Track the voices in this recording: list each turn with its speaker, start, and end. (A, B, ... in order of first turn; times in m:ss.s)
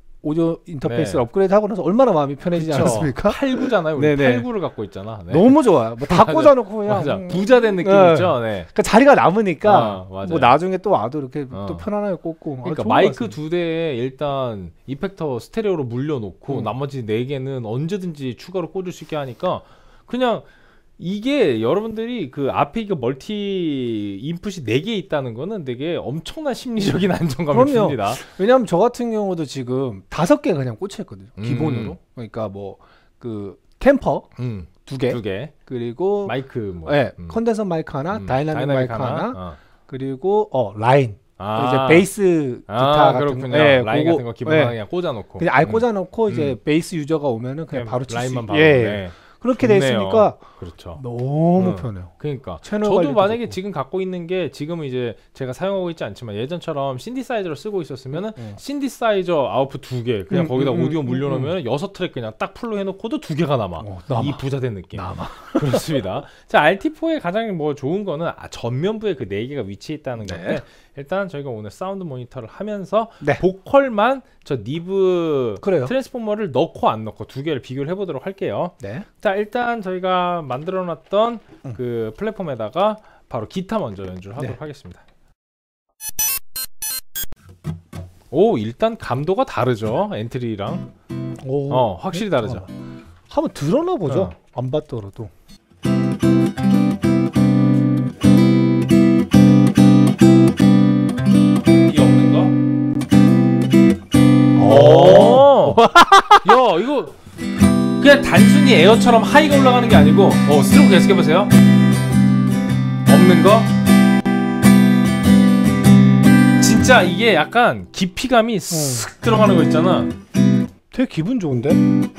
0:00.2-0:04.5 A
0:00.8-0:01.2 B
0:02.5-0:08.7 B
0:05.3-0:13.4 A
0:09.6-0:10.5 B
0:11.5-0:11.8 B
0:12.6-0:28.2 B
0:27.5-0:34.3 A
0:31.4-0:32.0 B
0:34.4-0:35.5 B
0:34.8-0:44.8 A
0:36.2-0:37.4 B
0:38.1-0:39.6 B
0:41.4-0:42.1 B
0:42.7-0:46.6 B
0:45.4-0:50.4 A
0:47.7-0:51.0 B
0:50.9-0:52.1 A
0:51.6-1:25.0 B
0:52.6-0:53.6 A
0:58.3-0:58.6 A
1:00.3-1:01.5 A
1:03.8-1:06.0 A
1:10.2-1:10.6 A
1:15.6-1:15.9 A
1:18.8-1:19.1 A
1:28.3-1:30.8 B
1:31.4-1:32.7 A
1:31.7-1:32.7 B
1:33.3-1:35.3 A
1:34.0-1:34.3 B
1:41.8-1:42.5 B
1:44.5-1:46.6 A
1:44.6-1:45.8 B
1:46.4-1:47.1 B
1:48.0-1:51.5 B
1:53.0-1:53.7 B
1:56.6-2:00.1 B
1:58.7-1:59.1 A
2:00.9-2:01.8 A